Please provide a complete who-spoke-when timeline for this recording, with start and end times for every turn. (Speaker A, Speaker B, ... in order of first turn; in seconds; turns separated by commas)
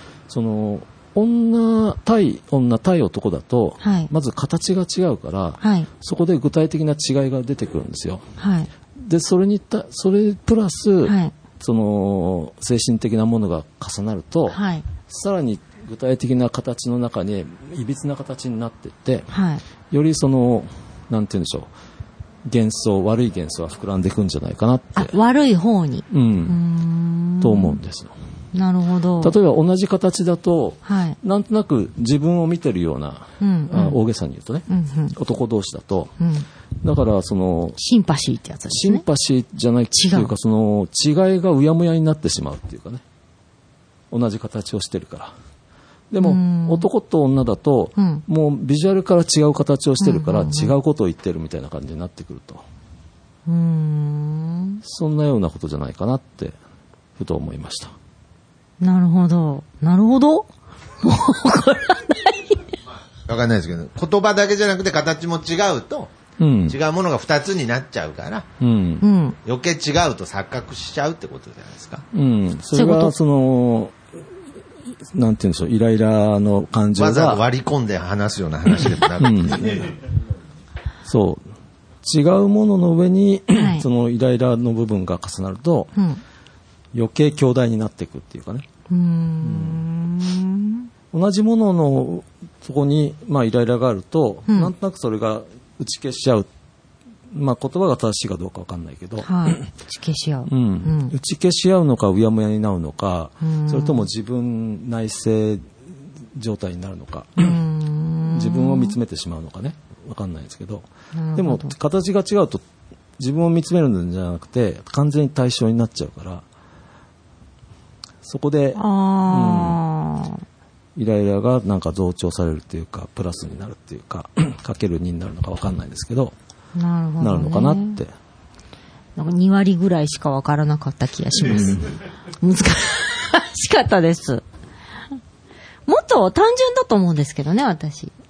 Speaker A: 0.3-8.2, Speaker B: 3.8-4.1, Speaker B: 5.6-5.9, Speaker B: 8.4-8.7, Speaker A: 9.0-19.3, Speaker B: 11.0-11.3, Speaker B: 14.5-14.8, Speaker B: 19.3-19.6, Speaker A: 19.9-21.7, Speaker A: 22.4-25.1, Speaker B: 24.9-27.8, Speaker A: 26.1-26.6, Speaker A: 27.4-28.1, Speaker B: 28.5-29.3, Speaker A: 29.2-36.1, Speaker B: 30.8-31.2, Speaker B: 33.4-34.0, Speaker B: 34.7-35.1, Speaker B: 36.2-36.5, Speaker A: 36.8-37.8, Speaker B: 37.8-39.0, Speaker A: 38.7-43.0, Speaker B: 39.9-40.3, Speaker A: 44.1-45.3, Speaker A: 46.1-52.6, Speaker B: 46.2-46.9, Speaker B: 48.0-48.2, Speaker B: 50.0-50.7, Speaker B: 53.5-54.8, Speaker A: 54.8-56.6, Speaker A: 57.2-57.9, Speaker B: 58.8-60.5, Speaker B: 61.0-62.7, Speaker C: 63.2-66.1, Speaker A: 66.4-66.8, Speaker C: 66.7-68.5, Speaker A: 68.6-69.0, Speaker B: 69.0-69.4, Speaker C: 69.4-72.0, Speaker A: 72.1-73.9, Speaker B: 72.7-73.1, Speaker A: 75.1-77.4, Speaker C: 77.0-79.9, Speaker A: 79.1-79.9, Speaker A: 81.0-81.5, Speaker A: 82.0-85.9, Speaker B: 83.5-83.8, Speaker B: 86.0-86.2, Speaker A: 86.9-88.7, Speaker B: 88.9-90.9, Speaker A: 89.4-89.8, Speaker A: 91.1-96.5, Speaker A: 97.3-99.6, Speaker B: 99.2-101.1, Speaker A: 100.5-105.7, Speaker B: 103.4-104.0, Speaker A: 106.3-107.6, Speaker B: 107.4-108.9, Speaker A: 108.3-112.6, Speaker B: 111.1-111.7, Speaker A: 113.2-116.4, Speaker A: 118.2-119.8, Speaker B: 118.7-120.4, Speaker A: 121.0-126.3, Speaker B: 126.8-128.0, Speaker A: 127.2-128.1, Speaker B: 129.2-134.4, Speaker A: 131.5-131.8, Speaker B: 135.9-138.1